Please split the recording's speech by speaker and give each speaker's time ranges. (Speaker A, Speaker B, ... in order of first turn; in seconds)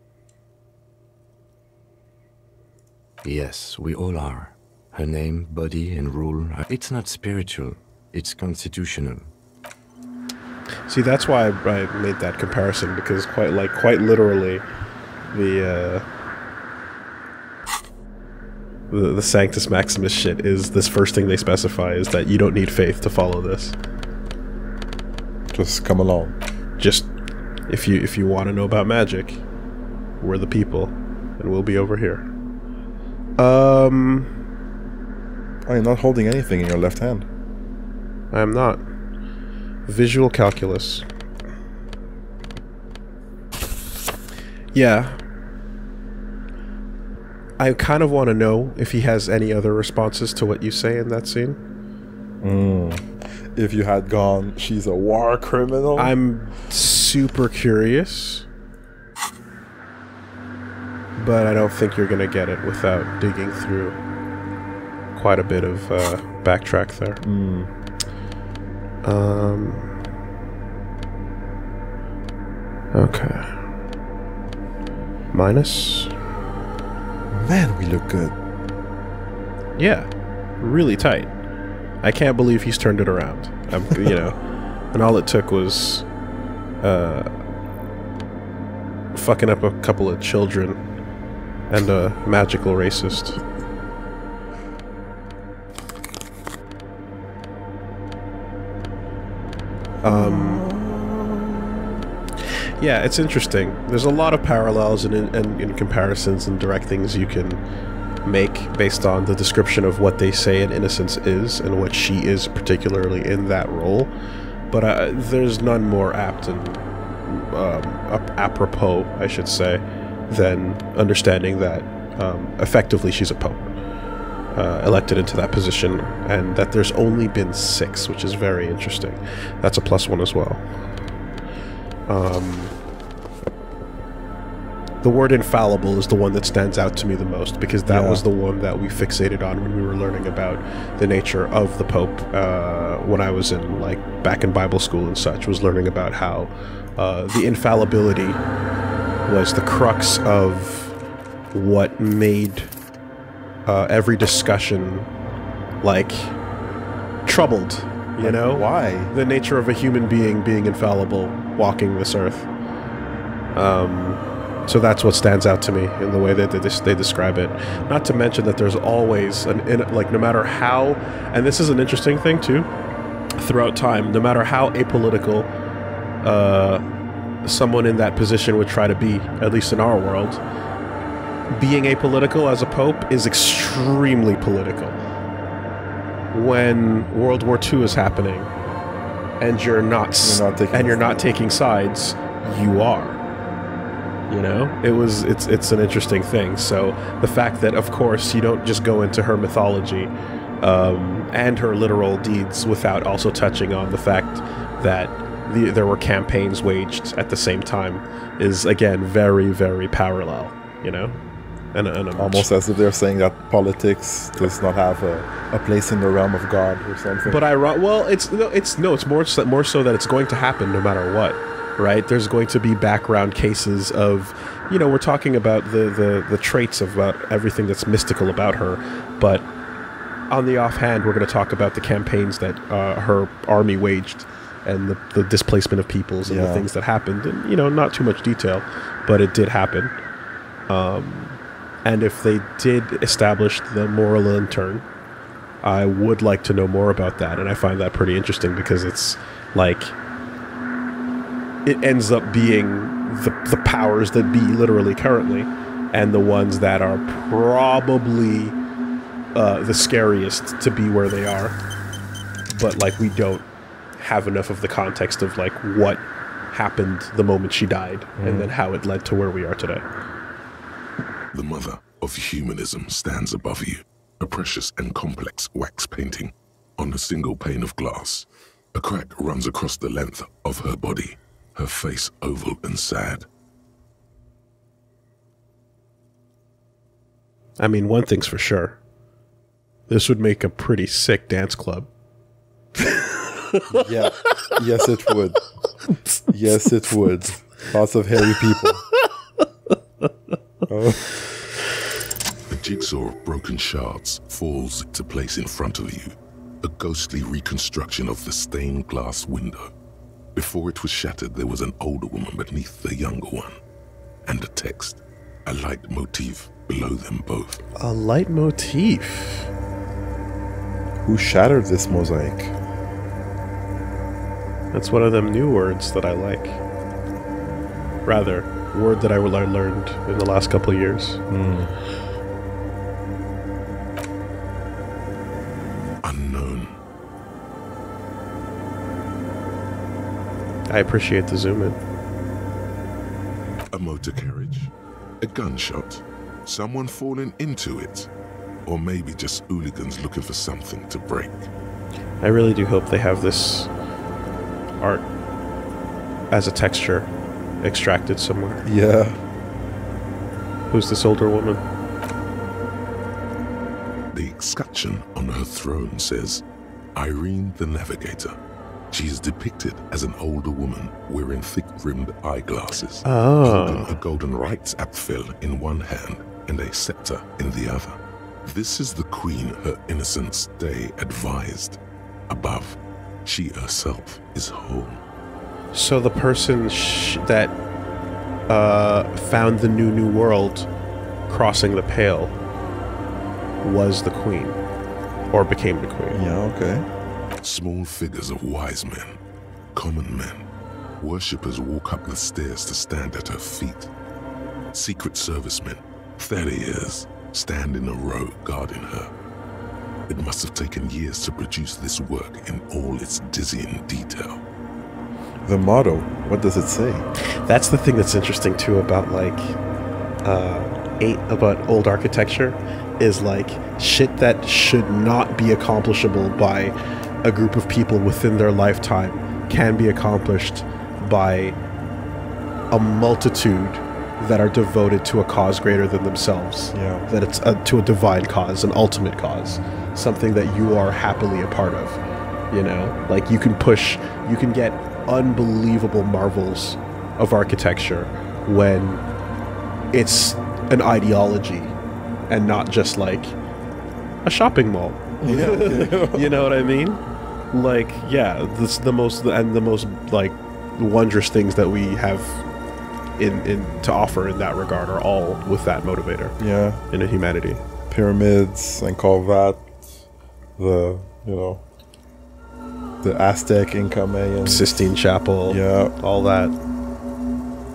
Speaker A: 3.2-9.3
Speaker B: 10.9-14.6, 15.3-16.1, 18.9-23.8, 26.8-27.1, 27.7-29.4, 30.2-32.3, 33.4-34.3, 38.3-38.8, 39.9-41.0, 44.7-45.2, 47.6-51.6, 56.0-58.5, 61.2-64.0, 65.2-67.2, 69.0-70.0, 72.9-73.6, 75.3-76.1, 79.8-81.3, 82.0-84.4, 84.9-86.1, 86.8-87.3, 89.1-90.8, 91.7-93.4, 100.0-100.6, 102.8-107.6, 108.2-114.1, 114.7-123.7, 124.5-130.7, 132.1-132.8, 135.0-148.4, 149.3-151.0, 151.5-152.7, 153.7-155.1, 155.8-156.4, 157.2-162.5, 163.5-172.7, 173.4-175.5, 176.2-176.8, 177.4-180.4, 181.5-185.0, 186.3-188.5, 189.4-193.2, 194.3-211.2, 211.7-212.5, 217.3-229.5, 230.3-239.9, 240.7-244.9, 245.6-250.0, 251.7-258.6, 259.3-261.6, 262.5-263.4, 264.0-269.8, 287.6-288.8, 289.9-291.9, 292.8-293.7, 299.0-299.4, 317.8-319.5, 324.7-326.6, 328.1-331.2, 340.7-341.8, 352.2-353.7, 354.8-355.1, 356.3-357.1, 357.6-358.7, 360.7-361.6, 373.1-373.9, 385.7-387.6, 388.5-390.7, 391.3-392.4, 393.6-394.6, 395.3-396.2, 417.2-419.6, 420.2-431.6, 432.7-442.0, 442.5-449.0, 449.9-451.8, 452.3-453.4, 454.2-457.0, 457.5-462.4, 463.2-466.4, 466.9-467.6, 474.5-476.6
Speaker C: 25.5-26.4, 35.6-37.3, 52.4-56.2, 67.2-67.7, 77.3-78.4, 100.0-102.0, 137.9-138.2, 158.2-159.1, 167.7-167.9, 190.2-191.3, 212.2-217.4, 236.3-236.7, 268.2-268.5, 293.7-295.4, 296.3-298.8, 300.7-301.1, 321.0-322.5, 331.3-331.7, 358.6-359.2, 396.1-396.9, 415.4-417.1, 436.7-437.1, 455.2-456.4, 466.4-466.8, 467.9-469.9, 470.6-471.6, 473.0-474.9, 475.5-475.9
Speaker D: 271.3-283.3, 302.5-309.7, 310.4-313.6, 314.3-317.6, 336.0-336.8, 343.7-348.1, 348.7-351.5, 364.1-366.4, 366.9-368.4, 368.9-385.0, 397.4-399.2, 399.8-400.5, 401.0-403.9, 404.7-409.1, 410.1-414.4